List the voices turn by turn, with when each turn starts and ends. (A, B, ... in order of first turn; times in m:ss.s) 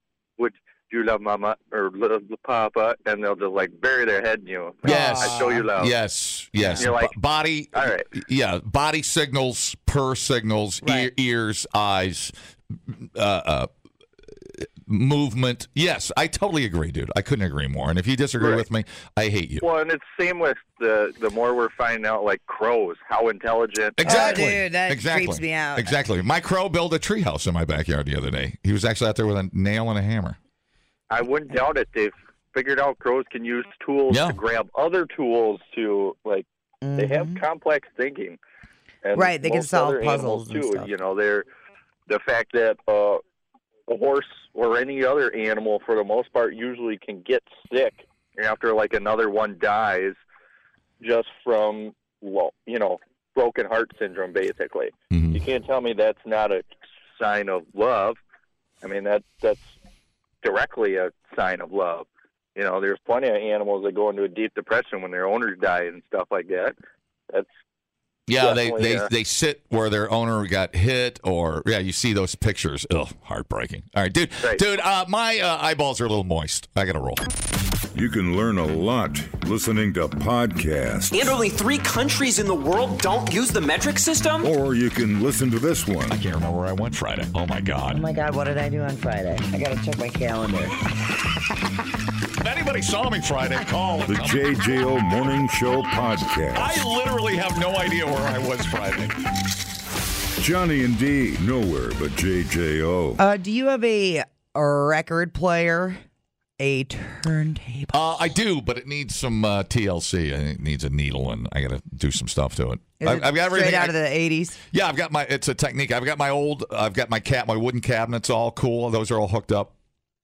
0:00.4-0:05.9 A
0:04.8-0:05.7 B
0:04.8-0:12.3 C
0:06.5-0:06.9 B
0:06.7-0:07.2 A
0:07.7-0:08.0 A
0:10.8-0:11.1 B
0:12.9-0:13.7 C
0:14.4-0:19.6 C
0:18.4-0:18.6 A
0:19.6-0:24.4 A
0:24.0-0:30.4 C
0:24.0-0:25.9 B
0:31.1-0:36.4 A
0:34.1-0:34.4 C
0:36.8-0:37.4 B
0:37.0-0:38.4 A
0:39.0-0:41.4 A
0:39.1-0:40.9 B
0:42.1-0:43.2 A
0:43.9-0:50.2 A
0:51.0-0:56.6 A
0:55.1-0:55.4 C
0:57.2-0:58.2 A
0:58.8-0:59.6 A
1:00.4-1:06.8 A
1:08.3-1:17.2 C
1:08.4-1:09.1 A
1:17.9-1:21.3 D
1:21.1-1:24.5 E
1:24.4-1:26.2 D
1:26.1-1:28.0 C
1:27.9-1:30.8 B
1:32.4-1:34.6 C
1:34.1-1:36.7 D
1:36.5-1:39.2 C
1:40.4-1:43.2 D
1:43.2-1:46.0 B
1:46.6-1:47.9 B
1:47.9-1:54.0 C
1:53.0-1:54.6 B
1:54.7-1:59.7 C